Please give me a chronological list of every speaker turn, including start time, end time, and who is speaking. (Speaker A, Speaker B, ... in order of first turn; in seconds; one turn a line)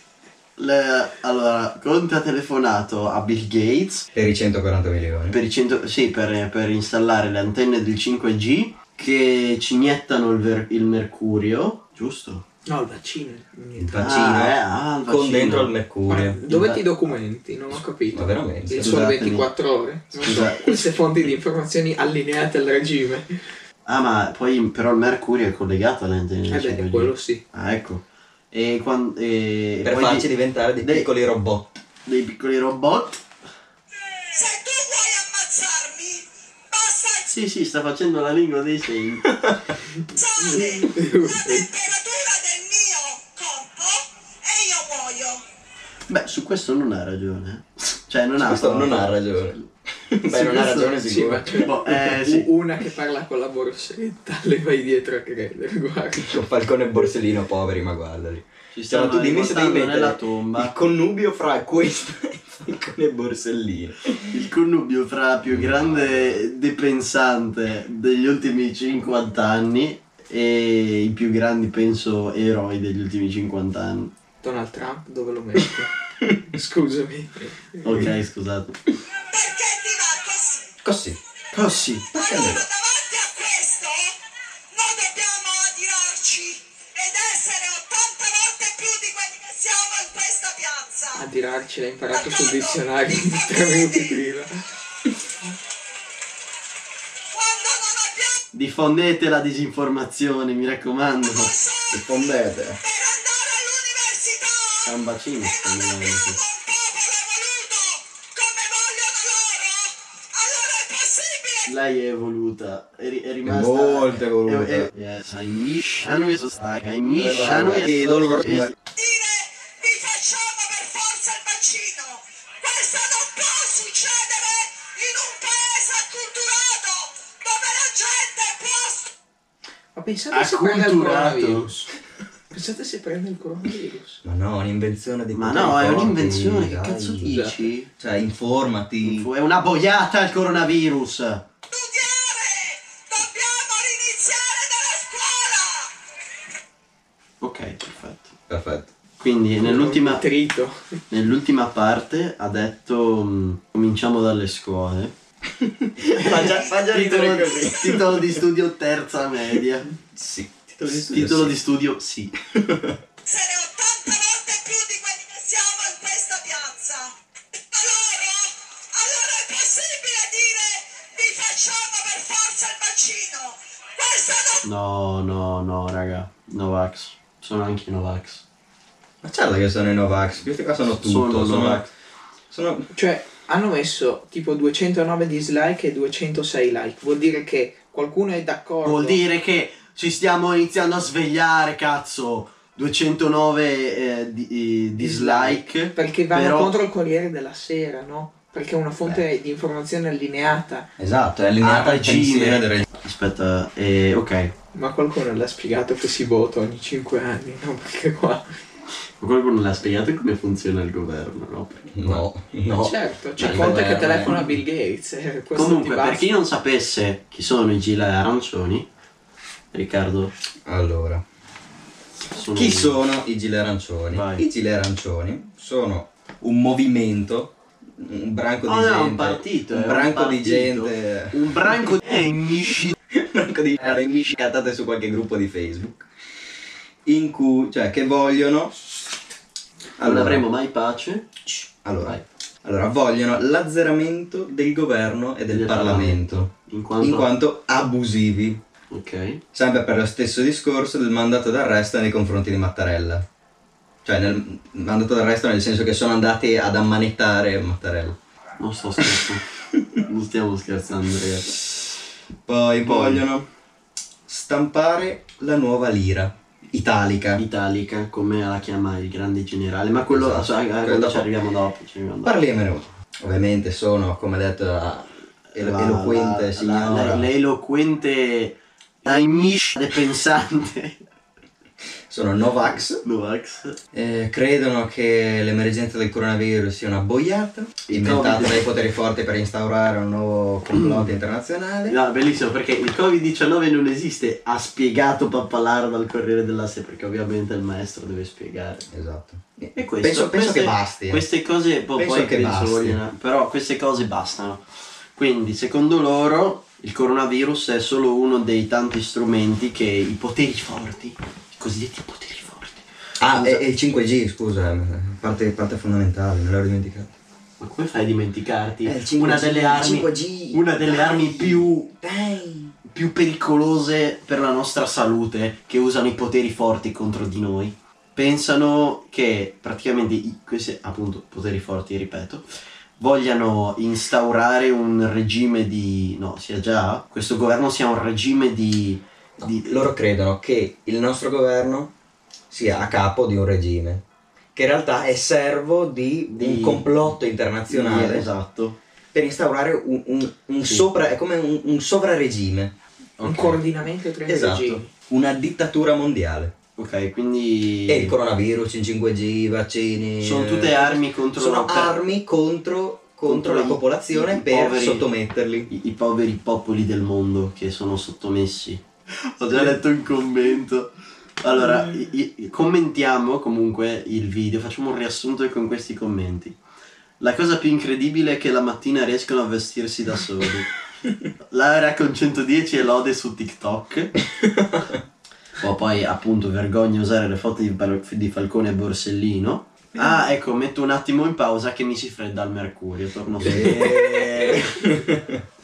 Speaker A: 0.6-4.1
Speaker B: 4.1-5.4
Speaker A: 5.3-12.4
Speaker C: 12.7-14.1
Speaker B: 13.8-16.8
Speaker A: 14.0-15.7
Speaker C: 16.1-23.4
Speaker B: 18.1-18.9
Speaker A: 18.8-19.5
Speaker A: 20.1-20.9
Speaker A: 23.9-30.3
Speaker C: 26.5-27.4
Speaker B: 29.8-31.8
Speaker A: 30.8-31.1
Speaker A: 32.0-33.2
Speaker D: 34.3-37.4
Speaker A: 37.3-39.3
Speaker B: 39.3-39.6
Speaker D: 40.1-45.4
Speaker C: 40.4-41.7
Speaker A: 46.1-49.2
Speaker B: 48.4-51.7
Speaker A: 50.3-50.9
Speaker C: 50.9-56.3
Speaker A: 51.5-52.5
Speaker B: 56.2-64.5
Speaker A: 58.7-60.7
Speaker A: 64.3-74.1
Speaker B: 65.5-66.4
Speaker C: 74.4-75.9
Speaker C: 76.5-78.0
Speaker A: 77.8-78.9
Speaker D: 79.3-80.7
Speaker B: 80.8-81.2
Speaker A: 81.5-82.1
Speaker D: 82.1-84.2
Speaker B: 82.1-82.6
Speaker D: 84.7-91.2
Speaker C: 91.1-94.6
Speaker D: 92.1-94.2
Speaker D: 97.3-98.4
Speaker A: 98.5-101.5
Speaker D: 101.2-111.8
Speaker B: 101.9-102.8
Speaker A: 104.8-106.4
Speaker A: 111.7-118.8
Speaker B: 113.4-114.9
Speaker B: 117.1-118.7
Speaker D: 119.0-129.1
Speaker C: 129.9-131.9
Speaker A: 130.3-131.7
Speaker C: 132.5-134.2
Speaker B: 134.2-137.4
Speaker A: 135.3-137.9
Speaker C: 137.2-137.6
Speaker B: 138.0-139.3
Speaker A: 139.0-141.4
Speaker D: 141.7-145.9
Speaker A: 147.4-148.3
Speaker B: 148.5-148.9
Speaker A: 149.2-150.2
Speaker C: 149.6-150.9
Speaker A: 151.1-155.1
Speaker B: 155.6-158.4
Speaker A: 156.1-159.9
Speaker D: 156.4-156.7
Speaker B: 160.1-161.6
Speaker A: 161.0-162.3
Speaker B: 162.5-163.0
Speaker D: 163.2-167.1
Speaker D: 167.7-174.7
Speaker A: 174.6-178.4
Speaker B: 179.2-181.9
Speaker A: 180.8-181.9
Speaker B: 182.5-182.9
Speaker C: 182.9-189.2
Speaker A: 188.8-196.8
Speaker C: 195.0-200.9
Speaker B: 201.0-202.8
Speaker A: 201.6-204.5
Speaker C: 204.7-208.5
Speaker A: 209.2-212.2
Speaker B: 211.9-214.5
Speaker C: 212.8-216.3
Speaker A: 215.6-218.9
Speaker A: 219.7-220.3
Speaker B: 220.7-221.2
Speaker A: 222.3-223.0
Speaker B: 222.5-232.0
Speaker A: 224.1-224.4
Speaker A: 228.7-232.9
Speaker B: 233.1-236.1
Speaker B: 237.1-238.8
Speaker B: 240.0-240.4
Speaker A: 240.0-241.5
Speaker B: 241.8-248.6
Speaker A: 245.5-247.3
Speaker A: 248.9-249.4
Speaker B: 249.5-253.3
Speaker B: 254.0-258.2
Speaker A: 258.6-259.4
Speaker B: 259.0-259.3
Speaker A: 260.0-261.6
Speaker B: 262.5-263.5
Speaker A: 262.8-263.2
Speaker B: 264.3-267.4
Speaker A: 267.4-272.4
Speaker B: 270.1-271.3
Speaker B: 272.2-277.3
Speaker A: 275.5-281.0
Speaker B: 282.1-283.0
Speaker A: 283.0-283.8
Speaker B: 283.9-292.0
Speaker A: 287.9-288.6
Speaker A: 290.8-291.1
Speaker A: 291.9-298.9
Speaker B: 298.9-301.3
Speaker A: 299.8-313.6
Speaker B: 301.9-303.0
Speaker B: 313.2-317.1
Speaker A: 317.6-321.9
Speaker B: 318.8-322.8
Speaker A: 322.9-332.5
Speaker A: 333.0-339.9
Speaker B: 339.4-341.9
Speaker B: 342.5-344.0
Speaker B: 344.6-348.3
Speaker A: 346.3-347.0
Speaker A: 347.7-348.8
Speaker B: 349.1-352.8
Speaker A: 350.6-350.9
Speaker C: 353.2-354.9
Speaker A: 353.2-353.6
Speaker B: 354.3-356.5
Speaker A: 356.8-358.1
Speaker B: 357.9-365.7
Speaker A: 360.2-361.9
Speaker A: 363.3-365.1
Speaker A: 365.7-376.6
Speaker A: 377.2-380.7
Speaker A: 381.5-384.1
Speaker B: 384.3-385.0
Speaker A: 385.6-395.0
Speaker B: 393.4-395.4